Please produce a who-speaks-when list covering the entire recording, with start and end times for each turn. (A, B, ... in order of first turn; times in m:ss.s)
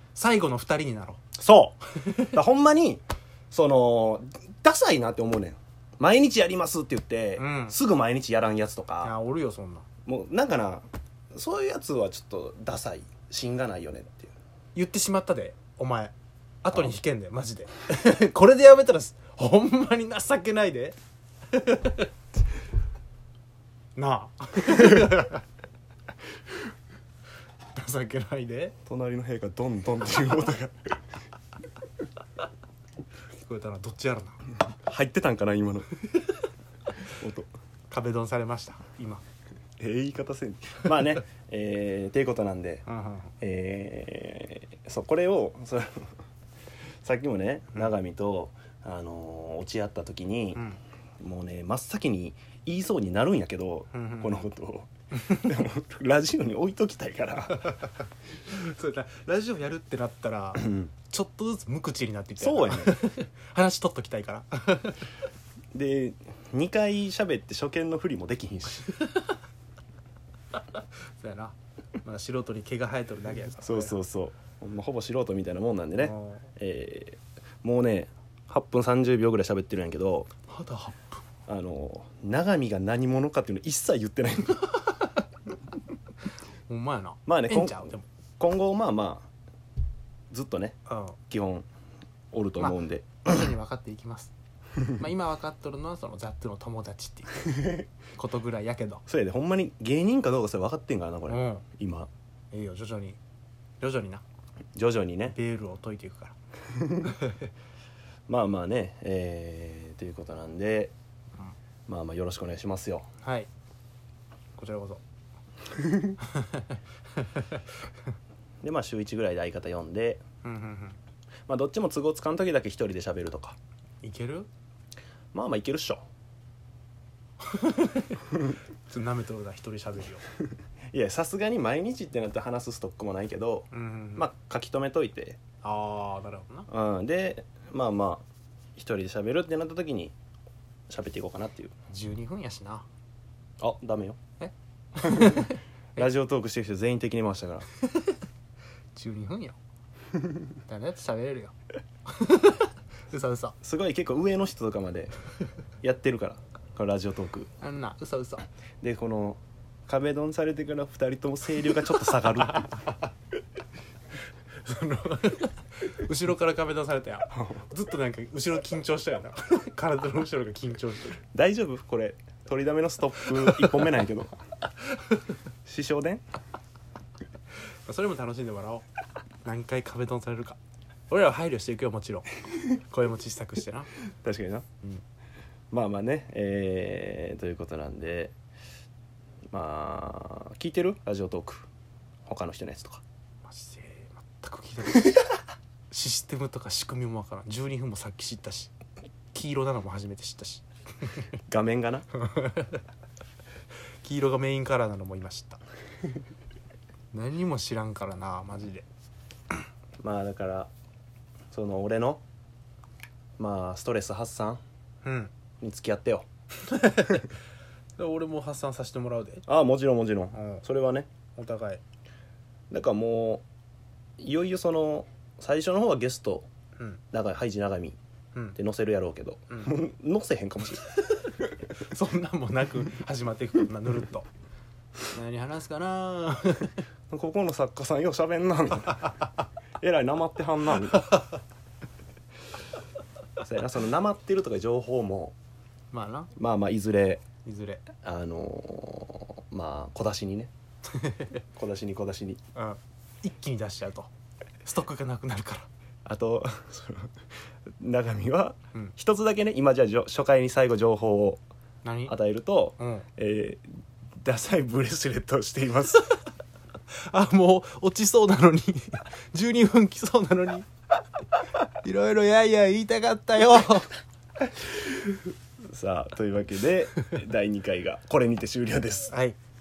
0:00.2-0:01.2 A
0:01.4-0:09.1 B
0:07.4-0:07.8 A
0:09.0-0:09.8 A
0:10.1-0:14.3 B
0:14.8-0:21.0 A
0:21.5-0:22.1 A
0:24.0-0:25.4 A
0:27.8-0:28.8 A
0:28.9-0:31.0 B
0:33.4-0:34.4 A
0:34.8-0:35.9 B
0:37.2-0:37.5 B
0:37.9-0:39.2 A
0:39.8-0:42.8 B
0:42.9-0:43.3 A
0:43.4-0:46.1 B
0:47.0-0:50.6 B
0:51.2-0:57.8 B
0:53.9-0:54.4 A
0:58.5-1:05.1 A
1:02.4-1:03.0 B
1:05.7-1:09.0 B
1:11.2-1:14.0 A
1:13.6-1:20.3 B
1:16.0-1:16.4 A
1:20.5-1:21.2 A
1:21.5-1:24.7 B
1:26.7-1:28.1 A
1:27.3-1:29.3 B
1:30.3-1:30.8 B
1:30.9-1:31.2 A
1:31.3-1:31.7 B
1:32.3-1:33.2 B
1:32.6-1:34.3 A
1:34.9-1:39.0 A
1:39.1-1:42.1 B
1:41.3-1:41.6 A
1:42.5-1:43.2 A
1:43.8-1:44.2 A
1:44.8-1:45.4 B
1:45.3-1:46.3 A
1:47.0-1:47.4 A
1:48.3-1:50.9 B
1:51.9-1:53.1 B
1:53.2-1:53.5 A
1:54.6-1:55.0 A
1:56.2-1:56.8 A
1:58.6-2:00.2 B
2:00.4-2:01.0 A
2:01.5-2:03.6 B
2:04.0-2:04.5 A
2:05.3-2:06.0 B
2:07.4-2:10.2 A
2:10.9-2:15.4 B
2:13.7-2:14.3 A
2:15.6-2:16.7 A
2:16.7-2:18.2 B
2:18.8-2:20.2 B
2:20.9-2:21.7 B
2:21.9-2:22.9 A
2:23.6-2:24.2 B
2:24.4-2:25.6 A
2:25.1-2:27.7 B
2:29.0-2:29.6 A
2:30.7-2:31.6 A
2:32.1-2:33.6 A
2:33.6-2:35.1 B
2:35.8-2:37.5 B
2:37.6-2:38.5 A
2:38.8-2:42.7 B
2:44.6-2:51.2 A
2:51.3-2:54.4 B
2:53.4-2:53.9 A
2:55.7-2:56.2 B
2:57.9-2:58.8 A
2:59.4-3:00.6 A
3:01.1-3:03.9 A
3:04.2-3:04.7 B
3:05.7-3:08.4 B
3:09.5-3:11.7 B
3:12.3-3:13.0 B
3:13.5-3:15.3 A
3:15.9-3:18.7 A
3:19.3-3:20.6 A
3:21.5-3:22.1 B
3:22.3-3:22.8 A
3:24.0-3:25.6 A
3:27.1-3:28.9 A
3:30.0-3:30.7 B
3:31.5-3:32.2 B
3:33.4-3:34.6 B
3:35.0-3:35.3 A
3:35.6-3:36.3 B
3:36.6-3:37.3 A
3:38.0-3:39.4 A
3:39.5-3:41.1 B
3:40.3-3:40.6 A
3:41.4-3:41.8 A
3:42.7-3:43.4 B
3:44.2-3:46.5 B
3:47.1-3:48.0 B
3:48.6-3:50.9 B
3:51.9-3:54.3 A
3:55.1-3:56.8 A
3:57.1-3:59.2 B
3:59.8-4:01.1 B
4:03.4-4:05.4 B
4:05.9-4:06.3 A
4:06.4-4:07.2 B
4:07.4-4:07.8 A
4:08.0-4:10.5 B
4:11.0-4:11.3 A
4:11.5-4:12.4 B
4:12.6-4:14.1 A
4:14.6-4:15.7 A
4:16.0-4:17.2 B
4:17.8-4:21.4 B
4:21.8-4:22.1 A
4:22.1-4:26.1 B
4:22.8-4:23.1 A
4:27.0-4:30.7 A
4:31.8-4:33.9 A
4:35.7-4:39.1 B
4:39.1-4:39.4 A